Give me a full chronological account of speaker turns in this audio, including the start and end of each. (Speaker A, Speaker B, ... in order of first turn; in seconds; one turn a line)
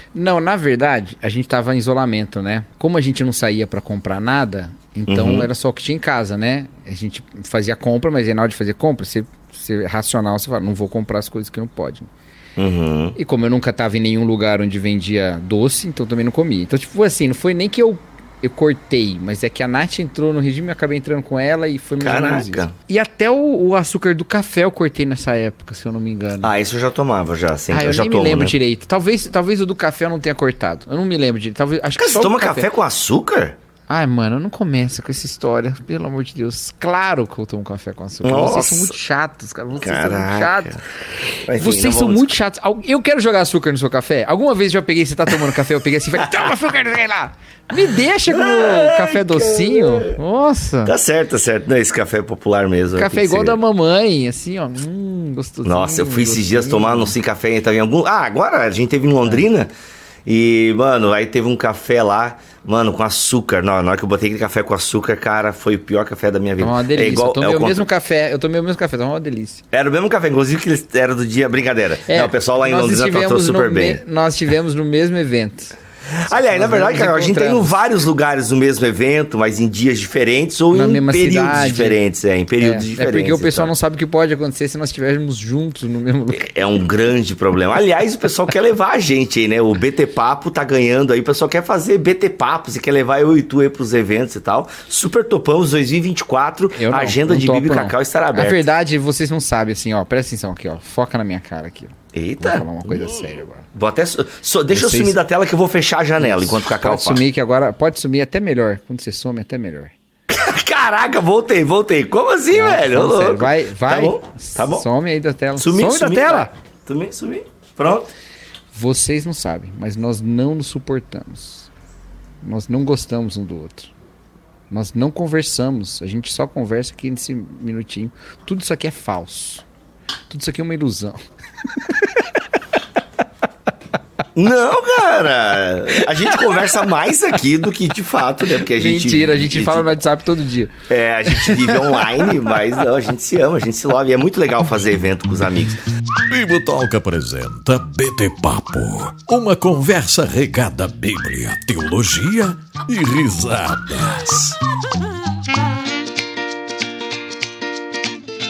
Speaker A: 0.1-12.1
Speaker B: 5.1-5.5
Speaker B: 12.6-13.2
Speaker A: 13.2-26.5
Speaker B: 22.0-22.7
Speaker B: 26.4-28.6
Speaker A: 27.7-32.7
Speaker B: 32.0-33.5
Speaker A: 33.9-50.9
Speaker B: 38.2-38.9
Speaker B: 39.8-40.8
Speaker B: 41.5-42.3
Speaker B: 48.3-50.2
Speaker B: 50.9-53.6
Speaker A: 53.0-57.2
Speaker B: 55.6-59.7
Speaker B: 60.3-67.8
Speaker A: 66.6-69.6
Speaker B: 69.7-74.0
Speaker A: 72.1-75.8
Speaker B: 76.1-83.7
Speaker A: 76.3-77.8
Speaker A: 80.7-82.0
Speaker A: 82.6-86.5
Speaker B: 86.3-98.6
Speaker A: 96.7-103.6
Speaker B: 102.1-107.2
Speaker A: 104.7-105.2
Speaker A: 106.2-109.9
Speaker B: 110.3-114.8
Speaker A: 112.5-116.5
Speaker B: 115.6-118.1
Speaker A: 118.7-121.7
Speaker A: 122.4-123.9
Speaker A: 124.7-129.6
Speaker A: 130.3-131.2
Speaker A: 131.8-132.1
Speaker B: 134.3-139.9
Speaker A: 135.9-136.6
Speaker A: 138.6-140.8
Speaker B: 140.9-145.8
Speaker A: 141.3-142.3
Speaker C: 146.3-154.6